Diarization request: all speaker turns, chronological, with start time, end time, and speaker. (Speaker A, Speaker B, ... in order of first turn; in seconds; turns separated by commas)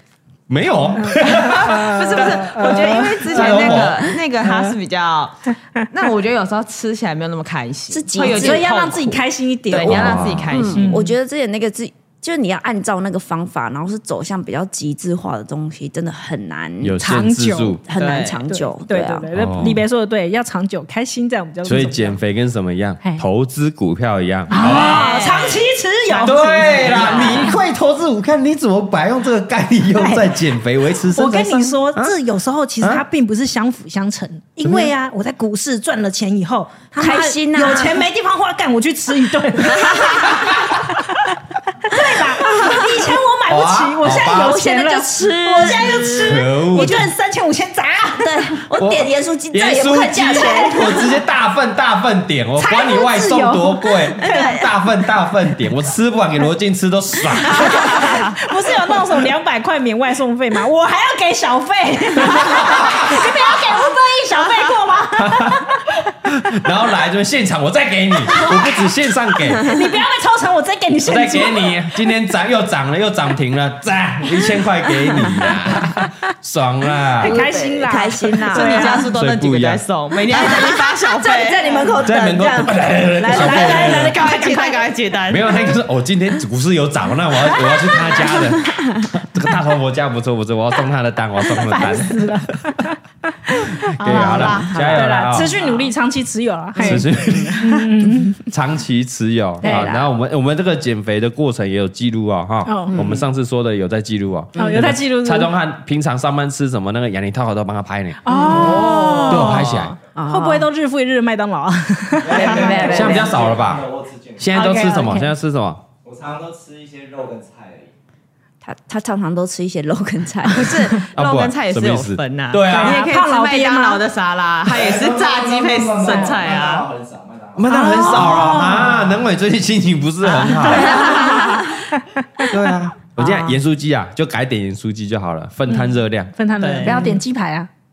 Speaker A: 0.5-2.4, Speaker B: 0.9-3.3, Speaker C: 1.3-11.0, Speaker A: 3.3-4.1, Speaker B: 4.4-4.7, Speaker D: 7.9-8.6, Speaker B: 8.3-11.1, Speaker A: 9.8-10.8, Speaker D: 10.5-17.0, Speaker A: 16.8-17.8, Speaker B: 17.0-17.8, Speaker D: 17.9-19.8, Speaker C: 17.9-18.4, Speaker B: 18.5-22.2, Speaker A: 19.3-19.8, Speaker A: 21.6-25.1, Speaker B: 24.5-27.6, Speaker C: 24.5-25.6, Speaker A: 26.1-32.2, Speaker C: 26.2-27.5, Speaker B: 29.9-30.3, Speaker B: 31.1-40.5, Speaker A: 34.6-34.9, Speaker D: 37.0-38.0, Speaker D: 39.6-40.4, Speaker B: 41.8-48.5, Speaker D: 41.9-42.9, Speaker A: 43.5-44.6, Speaker D: 44.0-46.3, Speaker A: 46.0-47.1, Speaker D: 48.2-51.1, Speaker A: 48.8-58.1, Speaker B: 52.6-54.5, Speaker D: 54.2-54.7, Speaker B: 57.4-65.8, Speaker A: 62.3-63.1, Speaker A: 65.2-69.7, Speaker B: 68.3-68.8, Speaker B: 69.6-71.8, Speaker A: 71.0-77.4, Speaker D: 77.2-79.0, Speaker B: 77.2-79.1, Speaker C: 78.4-82.5, Speaker A: 79.1-79.8, Speaker B: 80.3-80.7, Speaker D: 80.3-84.2, Speaker A: 82.0-84.2, Speaker B: 83.2-84.8, Speaker C: 83.3-85.6, Speaker A: 85.3-92.6, Speaker B: 87.9-88.1, Speaker B: 91.7-97.1, Speaker A: 94.0-95.5, Speaker D: 94.1-95.4, Speaker C: 94.2-95.9, Speaker A: 96.8-97.6, Speaker C: 97.0-97.9, Speaker B: 97.6-98.4, Speaker A: 98.5-108.2, Speaker D: 99.6-100.1, Speaker B: 99.6-99.9, Speaker B: 102.7-102.9, Speaker D: 102.9-103.3, Speaker D: 104.5-104.9, Speaker B: 104.5-105.5, Speaker B: 108.2-109.7, Speaker D: 108.3-109.4, Speaker C: 108.4-109.9, Speaker A: 109.3-109.9, Speaker D: 110.1-110.7, Speaker B: 110.3-112.6, Speaker E: 112.2-114.6, Speaker D: 112.3-113.4, Speaker C: 112.4-113.0, Speaker A: 112.8-113.8, Speaker A: 114.4-115.8, Speaker B: 114.5-115.3, Speaker E: 116.0-117.9, Speaker D: 118.6-121.0, Speaker C: 120.5-126.9, Speaker A: 121.1-123.0, Speaker B: 122.7-124.0, Speaker E: 124.6-127.7, Speaker B: 126.1-126.3, Speaker A: 127.5-131.3, Speaker B: 127.7-129.1, Speaker C: 130.5-131.7, Speaker B: 130.6-132.5, Speaker A: 132.5-136.3, Speaker D: 133.2-133.5, Speaker B: 135.7-137.7, Speaker C: 136.6-137.1, Speaker D: 136.8-137.2